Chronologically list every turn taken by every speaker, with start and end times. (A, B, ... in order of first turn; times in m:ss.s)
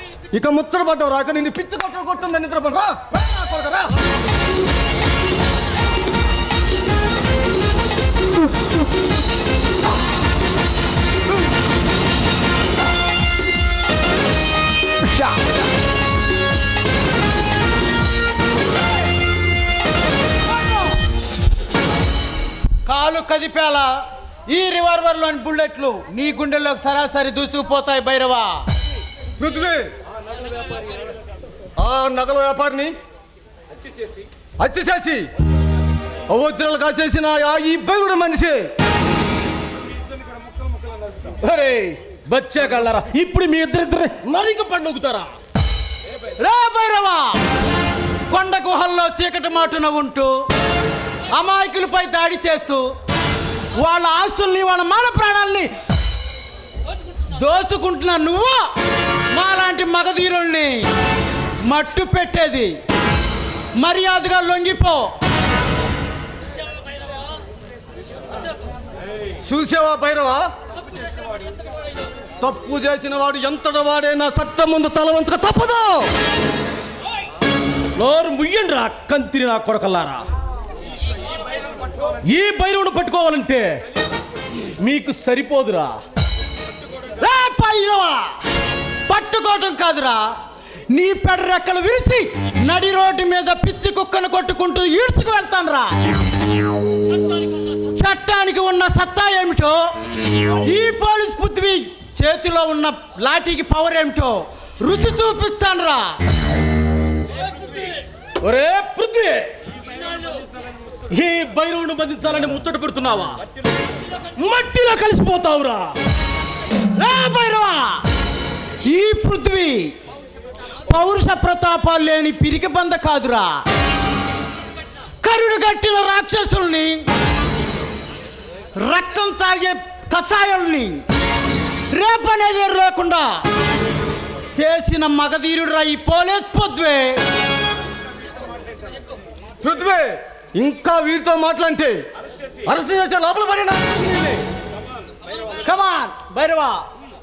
0:00.3-0:03.9 A
0:22.8-0:28.6 B
0:29.4-0:29.9 A
0:31.8-0:32.9 A
0:34.6-0:35.3 A
0:36.3-0:38.7 A
0:41.4-0:45.3 C
0:46.4-0:47.4 B
0:48.3-0:50.4 B
0:51.3-0:52.9 B
0:53.8-0:55.7 B
0:57.3-0:58.7 B
0:59.3-1:00.9 B
1:01.6-1:02.8 B
1:03.8-1:05.2 B
1:09.4-1:10.4 A
1:12.4-1:16.1 A
1:18.0-1:20.2 C
1:22.2-1:23.8 C
1:24.8-1:26.0 C
1:27.2-1:28.4 B
1:29.1-1:30.4 B
1:30.9-1:36.0 B
1:37.9-1:39.9 B
1:40.6-1:46.2 B
1:48.4-1:49.5 C
1:51.1-1:53.4 C
1:54.4-1:55.9 C
1:56.9-1:58.0 B
1:58.8-2:00.0 B
2:00.9-2:03.6 B
2:05.2-2:07.1 B
2:08.8-2:11.0 B
2:11.9-2:13.4 B
2:14.5-2:17.2 B
2:19.6-2:22.0 A
2:22.6-2:24.4 A
2:25.6-2:26.8 B